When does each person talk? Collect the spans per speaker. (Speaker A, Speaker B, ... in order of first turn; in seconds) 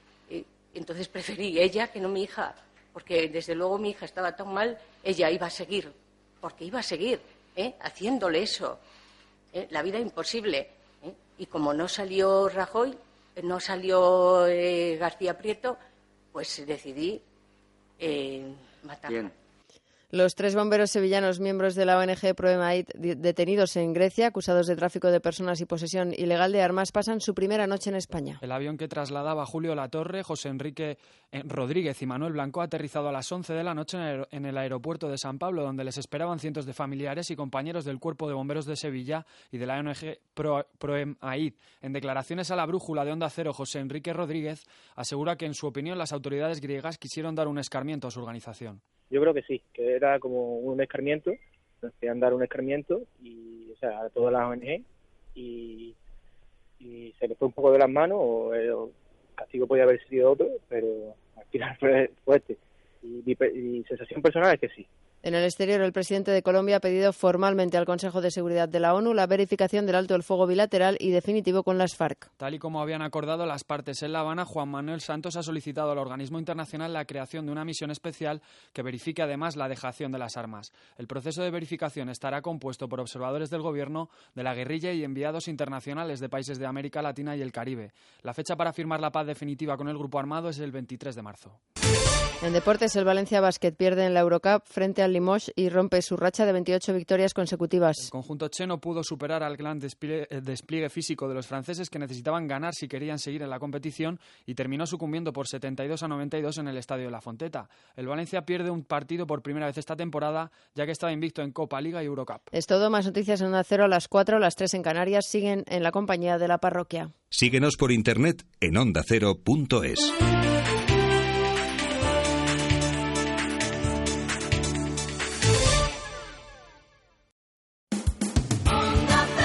Speaker A: 0.3-8.8, 9.5-15.8, 16.3-17.2, 18.0-19.3
Speaker B: 20.1-28.4, 65.2-72.3, 92.4-98.1, 112.5-117.1
Speaker C: 28.4-48.8, 72.4-91.6, 98.0-112.5
Speaker D: 49.1-54.8, 55.4-55.9, 56.8-64.9
Speaker E: 117.3-120.1